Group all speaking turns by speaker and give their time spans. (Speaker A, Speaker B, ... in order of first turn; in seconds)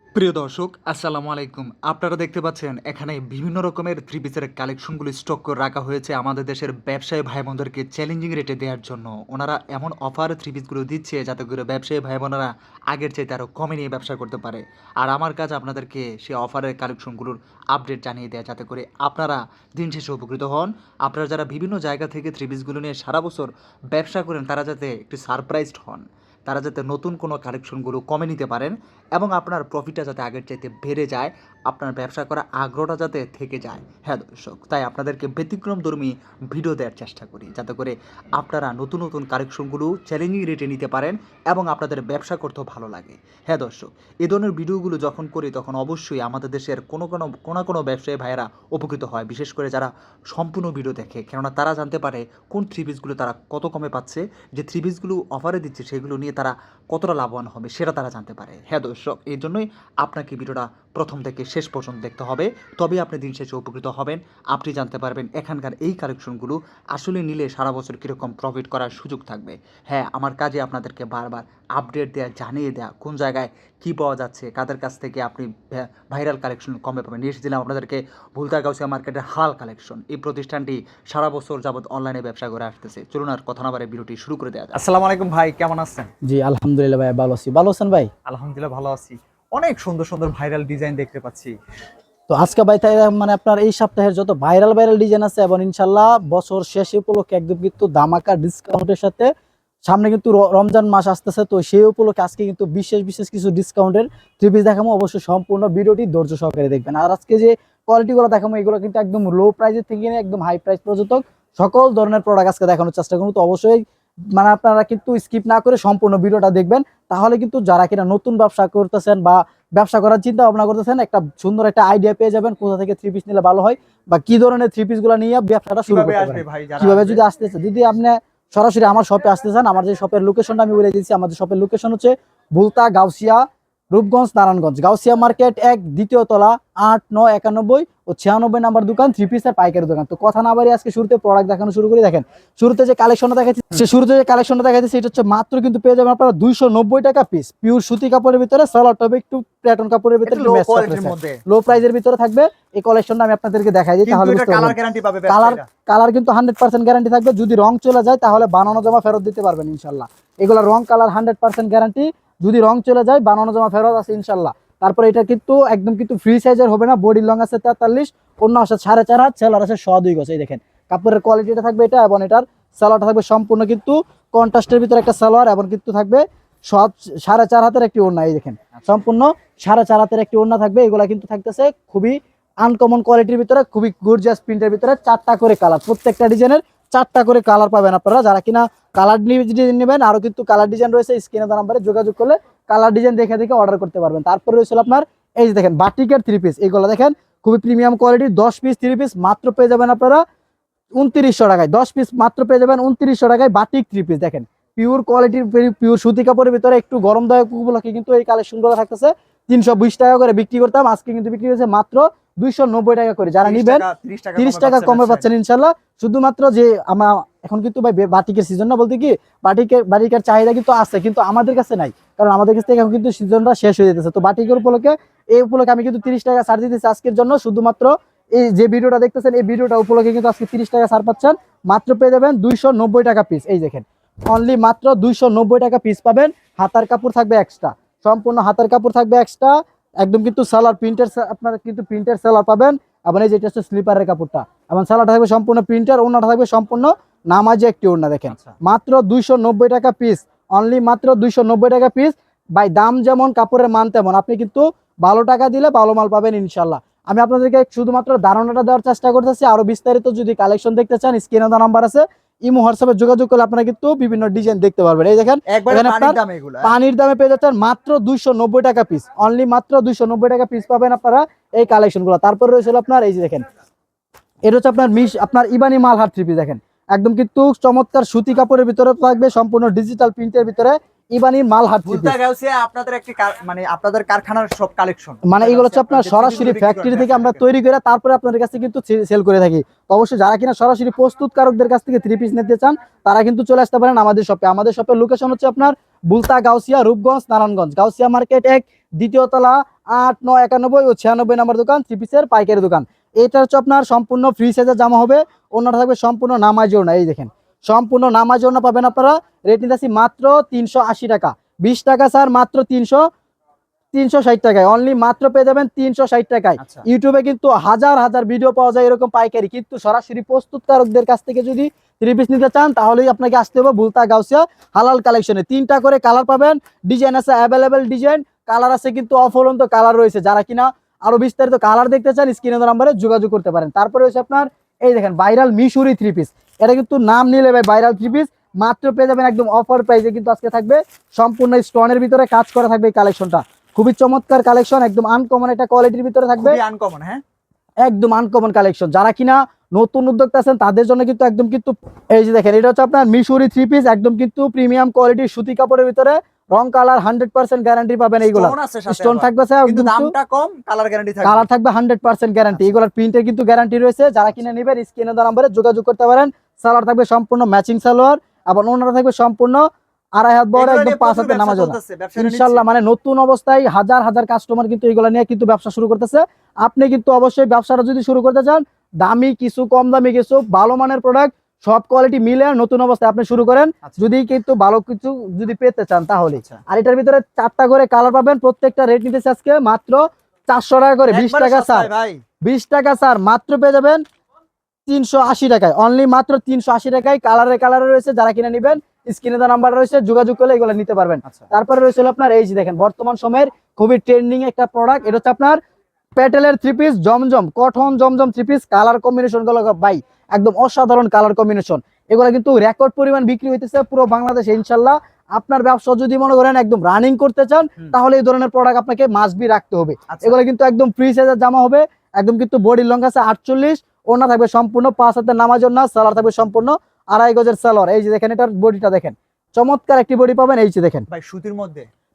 Speaker A: 0.1-84.8
Speaker B: 84.7-86.1, 88.2-91.6, 125.8-127.2, 150.2-151.4, 154.0-155.7, 213.4-215.3, 265.5-266.7, 281.8-287.4, 316.6-316.9, 346.3-347.2, 358.2-361.4, 370.5-372.6, 386.4-386.6, 391.1-392.2, 420.1-420.3, 431.1-431.9
Speaker C: 86.2-88.1, 92.3-99.3, 99.8-113.8, 114.3-200.2, 200.9-273.4, 274.4-282.1, 285.2-313.1, 313.9-346.6, 347.8-360.1, 361.2-369.6, 370.1-391.9, 392.4-394.0, 394.9-405.6, 406.1-431.1